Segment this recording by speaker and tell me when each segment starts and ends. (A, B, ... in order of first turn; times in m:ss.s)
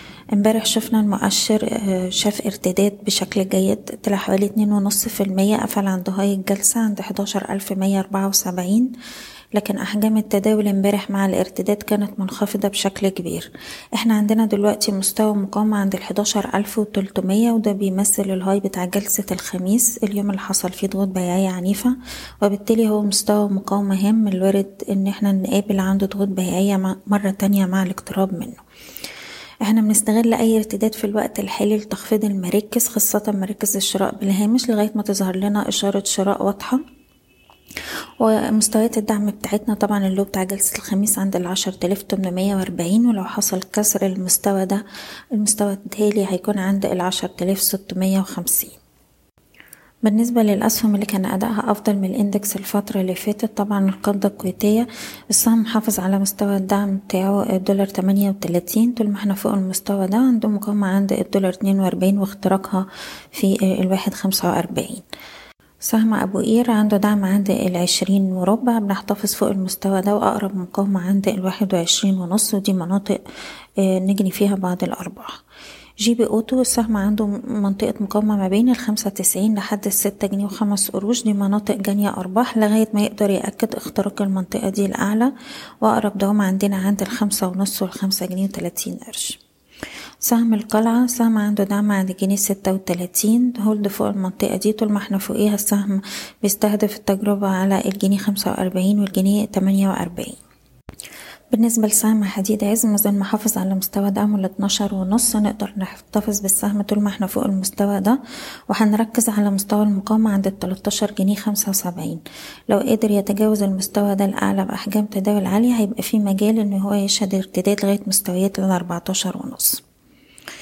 0:00.4-0:08.9 A
0:09.5-0:28.6 A
0:29.6-0:36.8 A
0:38.2-0:44.8 A
0:45.4-0:48.8 A
0:50.0-1:05.0 A
1:05.9-1:13.2 A
1:13.8-1:15.3 A
1:16.0-1:29.4 A
1:30.2-1:40.4 A
1:41.5-1:59.8 A